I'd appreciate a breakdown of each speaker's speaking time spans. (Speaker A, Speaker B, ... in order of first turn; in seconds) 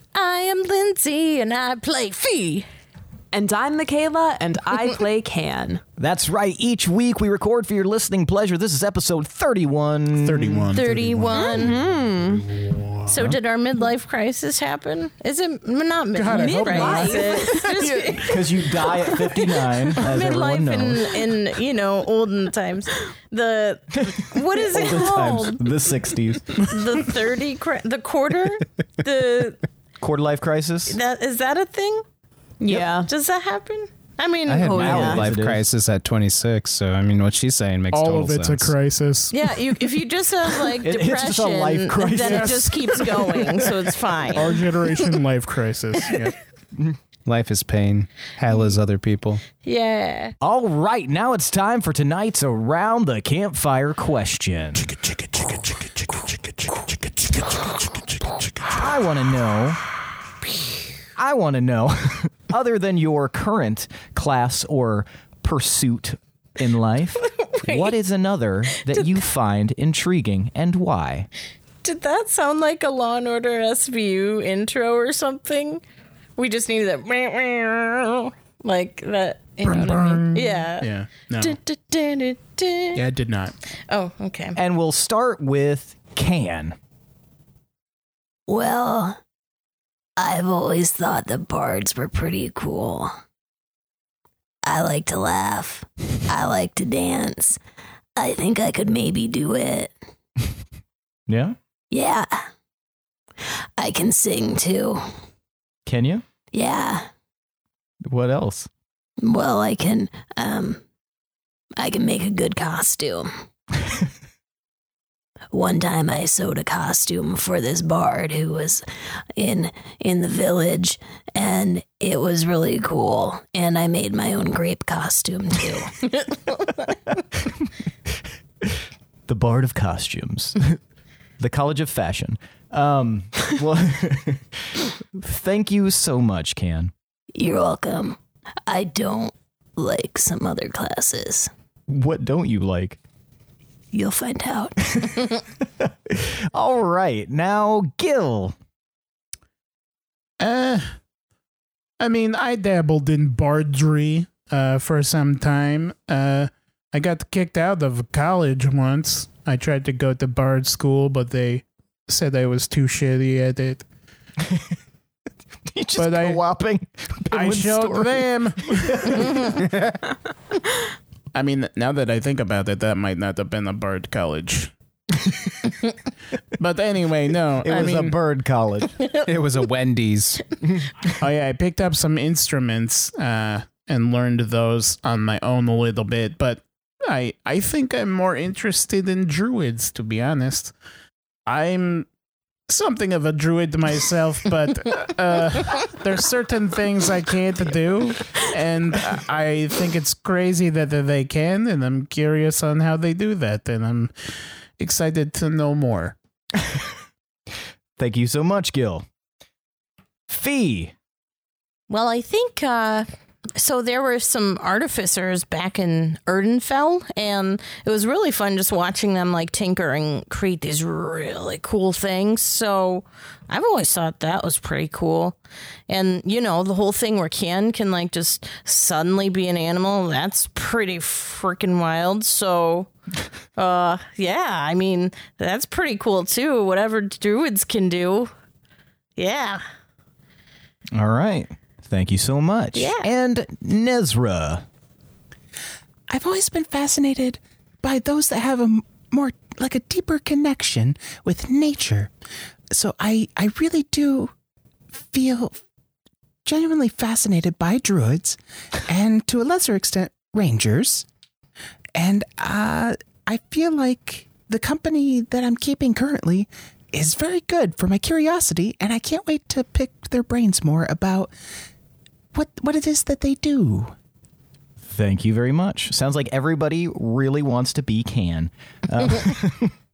Speaker A: 0.1-2.6, 10.7-11.7, 13.1-25.6, 26.6-29.6, 30.9-32.0, 32.7-35.2, 39.3-44.6, 49.6-50.3, 67.3-67.9, 68.8-69.2, 71.8-75.8, 76.4-83.0, 83.9-84.6, 126.2-126.8, 211.9-225.4, 225.9-232.9, 233.6-238.3, 239.2-239.6, 242.7-243.1
Speaker B: 3.3-5.8, 11.3-12.5, 16.3-17.8, 32.6-33.1, 34.6-35.2
Speaker C: 6.0-10.7, 18.2-21.1, 24.1-26.8, 30.0-31.0, 34.7-35.7, 40.7-43.8, 50.4-54.9, 58.6-59.8, 61.1-71.3, 84.5-86.8, 101.3-101.6, 105.8-106.2, 108.0-108.7, 128.6-130.8, 131.4-136.9, 141.9-143.0, 145.8-148.6, 164.4-164.7, 165.7-169.5, 177.6-178.9, 208.0-209.1, 210.3-210.9, 240.9-244.7, 274.8-279.7
Speaker D: 10.2-13.4, 16.1-18.4, 37.9-39.3, 42.2-42.7, 44.3-46.3, 54.8-58.4, 79.6-81.6, 82.9-83.5, 150.4-150.9, 152.0-163.8, 166.0-166.4, 167.3-169.4, 171.3-174.7, 176.6-178.2, 181.1-190.7, 191.4-192.1, 192.7-204.1, 204.8-206.2
Speaker E: 34.5-38.7, 47.2-49.4, 169.4-169.9, 179.2-180.4, 246.1-252.1, 252.7-254.3, 254.9-255.6, 256.4-261.1, 262.0-271.3, 272.3-273.9
Speaker F: 88.5-89.2, 90.2-93.1, 94.6-97.6, 98.2-99.9, 101.9-102.5, 103.8-105.0, 106.5-107.1, 109.2-110.8, 111.8-113.3, 115.5-126.0, 137.3-141.5, 143.9-145.2